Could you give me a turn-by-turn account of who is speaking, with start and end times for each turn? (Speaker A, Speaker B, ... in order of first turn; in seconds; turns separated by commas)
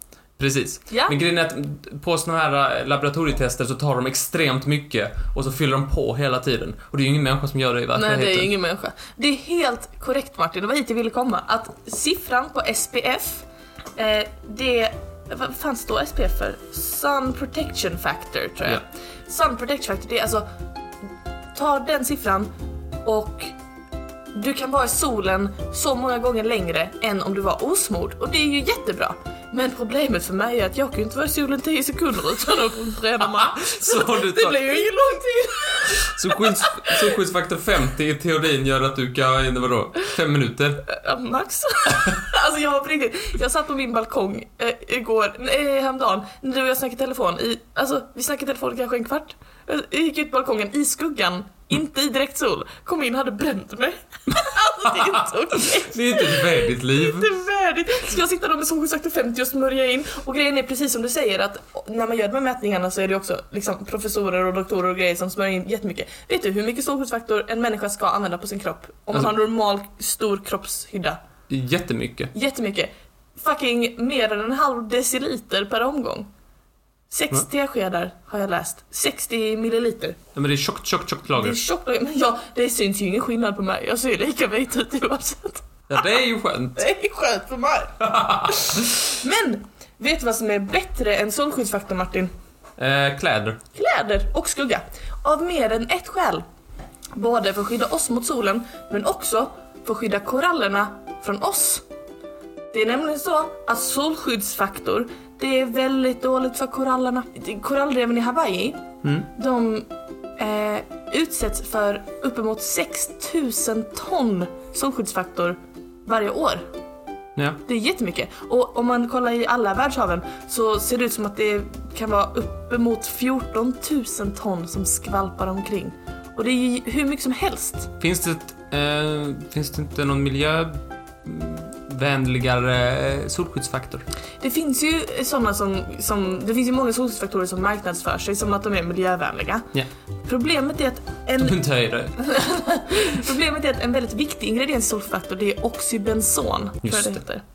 Speaker A: 0.4-8.5, Speaker B: 0.9-1.1, Speaker B: 7.9-20.5, Speaker B: 21.5-22.5, Speaker B: 23.0-23.5, Speaker B: 24.3-36.9, Speaker A: 33.2-34.7, Speaker A: 36.0-40.9, Speaker B: 40.9-71.2, Speaker A: 54.9-57.3, Speaker A: 71.5-72.3, Speaker B: 72.3-76.3, Speaker B: 77.1-80.2, Speaker A: 80.3-81.6, Speaker B: 81.3-86.0, Speaker A: 85.9-86.8, Speaker B: 86.8-92.3, Speaker A: 88.0-88.8, Speaker A: 92.8-93.6, Speaker B: 93.7-96.4, Speaker B: 97.1-101.8, Speaker B: 102.7-116.7, Speaker B: 117.7-127.9, Speaker A: 128.0-134.0, Speaker B: 134.4-139.7, Speaker B: 140.2-141.6, Speaker A: 141.4-142.2, Speaker B: 142.2-147.4, Speaker A: 146.8-147.2